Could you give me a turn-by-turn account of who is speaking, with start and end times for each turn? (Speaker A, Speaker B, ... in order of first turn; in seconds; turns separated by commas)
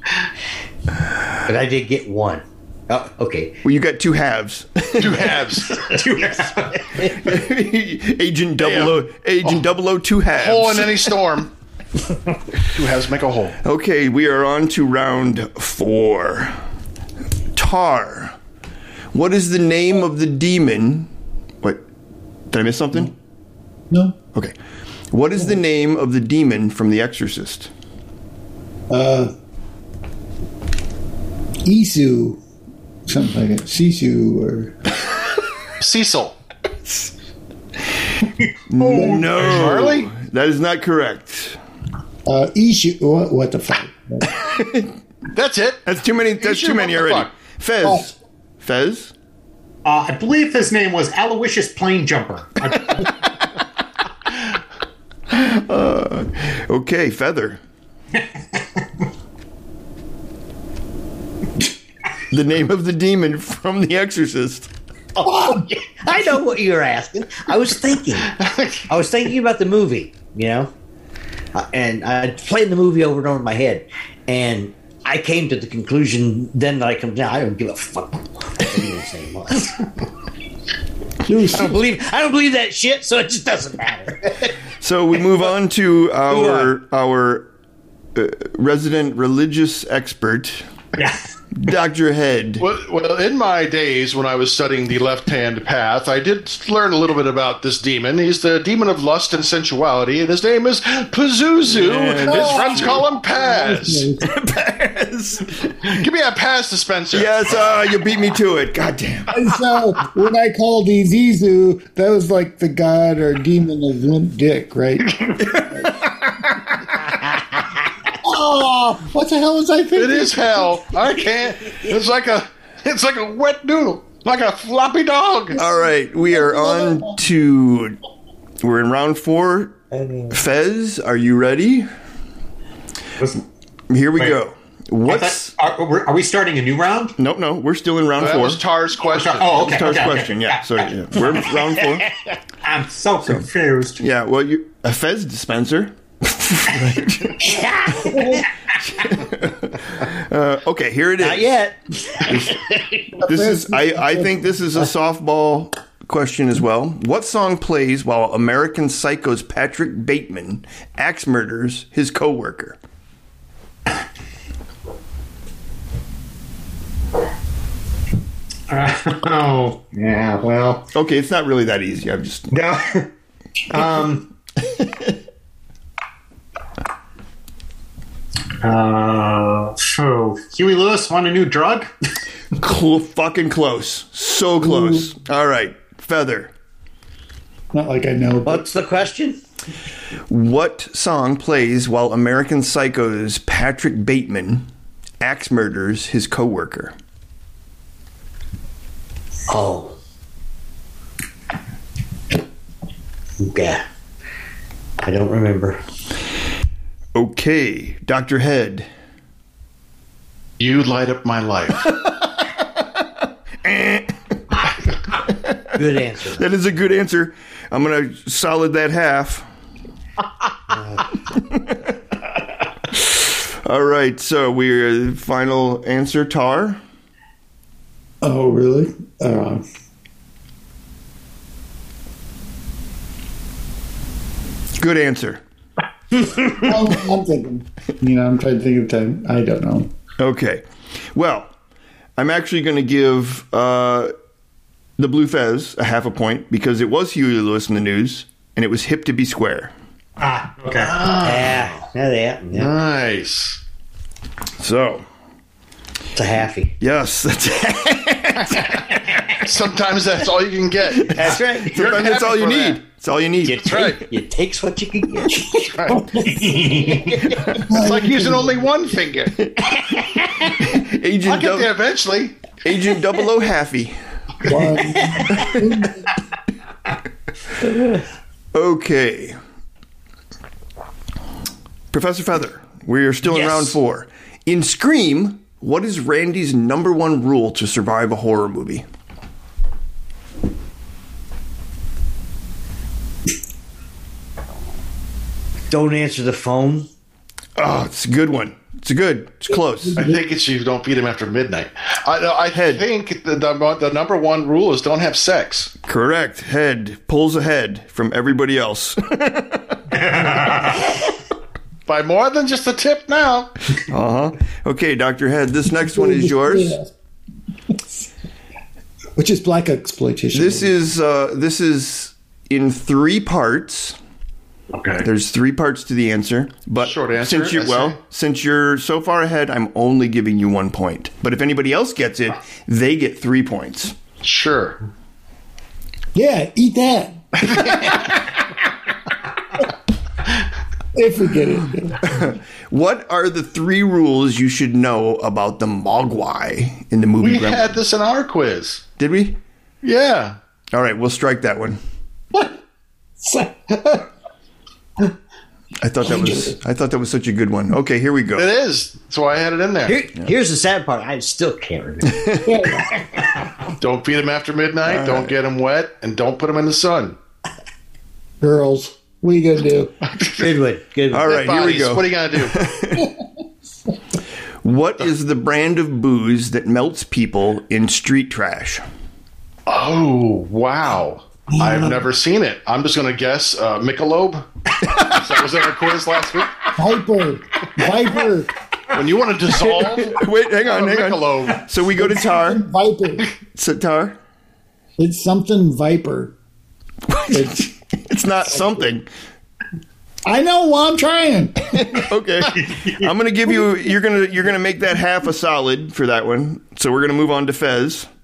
Speaker A: 1.4-3.6, Speaker B: 3.6-5.5, Speaker C: 5.0-5.9, Speaker D: 5.7-7.1, Speaker B: 7.0-11.1, Speaker C: 8.6-9.6, Speaker C: 10.3-11.5, Speaker C: 12.7-13.6, Speaker B: 13.6-16.6, Speaker B: 17.6-18.4, Speaker B: 19.1-21.1, Speaker B: 22.5-23.1, Speaker E: 23.9-24.2, Speaker B: 25.1-27.7, Speaker E: 28.9-29.3, Speaker E: 31.6-32.4, Speaker E: 33.1-34.8, Speaker C: 35.8-36.4, Speaker B: 38.7-41.6, Speaker C: 38.8-40.1, Speaker E: 38.9-39.3, Speaker E: 42.3-44.3, Speaker B: 44.3-44.9, Speaker C: 45.3-45.8, Speaker B: 45.9-49.1, Speaker C: 46.4-47.3, Speaker D: 49.9-53.1, Speaker B: 55.3-57.6, Speaker D: 58.2-58.6, Speaker B: 62.3-64.7, Speaker A: 65.2-68.3, Speaker C: 68.3-68.9, Speaker A: 68.9-70.7, Speaker A: 71.5-79.9, Speaker E: 81.2-81.8, Speaker A: 81.5-84.5, Speaker B: 84.8-87.5, Speaker A: 86.3-86.7, Speaker B: 88.2-90.6, Speaker D: 91.0-91.2, Speaker B: 91.6-92.7, Speaker C: 92.6-104.1, Speaker B: 101.6-103.1, Speaker E: 102.2-104.2, Speaker B: 104.2-106.1, Speaker C: 106.0-107.3, Speaker B: 107.1-109.3, Speaker E: 109.3-116.0, Speaker C: 115.2-115.4, Speaker E: 118.2-120.8, Speaker C: 120.0-125.6, Speaker E: 125.5-127.2, Speaker B: 125.5-128.0, Speaker B: 128.6-129.8, Speaker A: 130.0-130.3, Speaker B: 130.3-131.9, Speaker B: 133.9-135.5, Speaker D: 135.1-137.2, Speaker B: 137.2-138.6, Speaker C: 138.2-139.7, Speaker D: 139.1-141.4, Speaker B: 139.6-142.1, Speaker D: 142.6-144.0, Speaker B: 144.0-151.6, Speaker A: 147.4-148.4, Speaker A: 151.2-153.0, Speaker B: 152.2-152.7, Speaker E: 153.2-154.4, Speaker B: 153.2-162.8, Speaker D: 168.7-170.9, Speaker B: 170.9-172.5, Speaker D: 172.5-173.1, Speaker D: 173.7-174.3, Speaker B: 174.6-175.1, Speaker D: 178.6-181.9, Speaker B: 182.6-186.5, Speaker E: 184.6-185.1, Speaker E: 187.7-188.7, Speaker A: 188.4-189.4, Speaker B: 190.3-194.7, Speaker B: 195.2-196.9, Speaker A: 199.5-200.0, Speaker A: 203.4-203.8, Speaker A: 205.0-205.8, Speaker B: 207.2-208.9, Speaker C: 210.6-211.9, Speaker B: 213.6-214.1, Speaker B: 215.2-215.6, Speaker A: 215.8-216.4, Speaker B: 216.4-219.4, Speaker B: 221.3-221.9, Speaker B: 222.9-226.8, Speaker E: 228.2-229.6, Speaker B: 234.8-235.4, Speaker E: 236.6-239.9, Speaker B: 240.2-240.6, Speaker B: 241.1-241.5, Speaker B: 242.2-244.1, Speaker B: 245.0-249.7, Speaker D: 250.2-251.0, Speaker C: 250.7-251.8, Speaker A: 251.2-252.7, Speaker C: 252.5-253.6, Speaker B: 254.6-255.1, Speaker A: 256.1-256.7, Speaker B: 256.8-259.5, Speaker C: 259.4-262.8, Speaker B: 261.0-263.9, Speaker A: 261.1-262.0, Speaker A: 263.5-267.5, Speaker C: 263.5-264.1, Speaker C: 265.5-266.1, Speaker D: 266.3-267.0, Speaker E: 267.7-268.7, Speaker C: 267.7-269.3, Speaker B: 269.4-271.7, Speaker C: 271.2-272.5, Speaker B: 272.6-274.0, Speaker E: 274.4-276.1, Speaker B: 275.2-275.7, Speaker B: 278.5-279.4, Speaker B: 281.9-288.9, Speaker A: 283.3-283.8, Speaker A: 295.7-296.9, Speaker B: 297.6-300.1, Speaker E: 299.5-300.2, Speaker C: 299.9-305.7, Speaker B: 302.5-302.9, Speaker B: 305.9-310.0, Speaker D: 309.9-310.9, Speaker C: 311.9-313.5, Speaker B: 313.8-316.8, Speaker E: 315.7-316.9, Speaker E: 319.2-320.7, Speaker B: 320.3-324.0, Speaker C: 324.7-325.1, Speaker B: 325.0-334.0, Speaker C: 326.8-328.0, Speaker C: 334.2-334.8, Speaker E: 336.1-337.9, Speaker C: 337.4-338.3, Speaker E: 340.9-342.0, Speaker B: 342.0-347.8, Speaker C: 347.2-348.9, Speaker B: 349.0-349.4, Speaker C: 349.8-350.4, Speaker B: 350.7-351.8, Speaker E: 353.2-354.0, Speaker B: 355.8-358.5, Speaker E: 356.0-356.6, Speaker C: 358.4-360.0, Speaker A: 359.9-362.2, Speaker B: 362.1-362.6, Speaker E: 362.4-363.1, Speaker C: 363.8-367.2, Speaker B: 364.9-365.3, Speaker E: 368.4-369.9, Speaker C: 370.1-370.5, Speaker A: 370.4-371.5, Speaker B: 371.1-373.1, Speaker C: 371.3-372.6, Speaker B: 374.6-378.8, Speaker C: 379.7-384.5, Speaker C: 385.0-386.6, Speaker E: 386.8-388.5, Speaker C: 388.9-391.6, Speaker B: 389.5-392.6, Speaker E: 391.9-393.3, Speaker B: 393.5-394.2, Speaker E: 395.0-396.3, Speaker B: 397.1-399.1, Speaker E: 397.3-397.7, Speaker E: 400.2-401.7, Speaker B: 401.7-408.1, Speaker D: 402.6-402.9